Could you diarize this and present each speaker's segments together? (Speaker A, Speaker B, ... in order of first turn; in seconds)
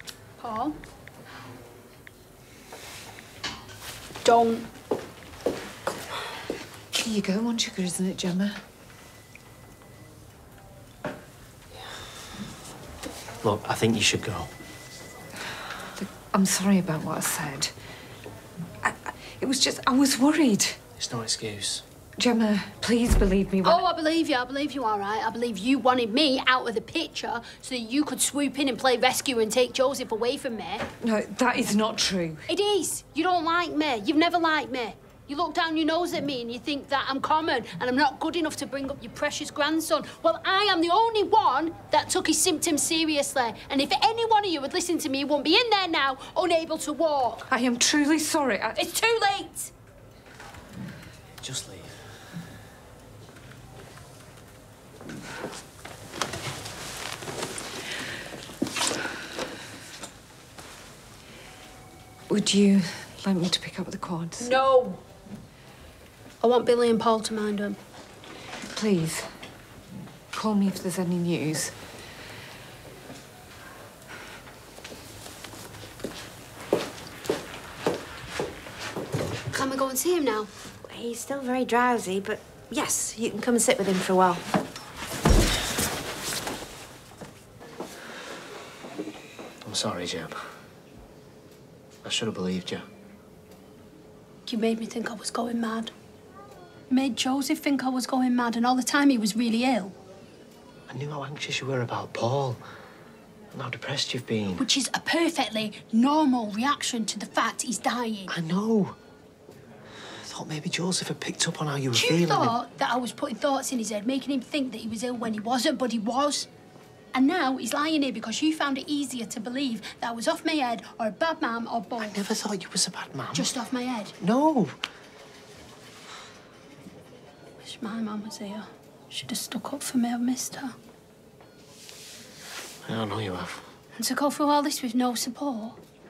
Speaker A: 0.4-0.8, 4.2-4.7, 23.6-30.9, 32.5-47.5, 48.8-49.7, 64.4-65.0, 66.4-67.8, 79.5-80.5, 94.5-95.9, 96.9-99.9, 104.6-108.3, 111.9-116.5, 117.1-122.2, 123.3-124.2, 127.6-130.7, 133.9-135.8
Speaker B: 7.0-8.6, 16.0-17.7, 18.8-20.8, 22.2-23.8, 31.0-32.5, 47.5-48.8, 62.3-64.5, 68.7-69.3, 70.3-71.7
Speaker C: 13.4-14.5, 21.0-21.8, 51.4-51.9, 89.6-90.4, 92.0-92.8, 100.9-102.6, 103.5-104.7, 108.3-109.0, 110.2-112.5, 122.0-123.5, 124.2-124.8, 132.8-133.7
Speaker D: 80.8-84.4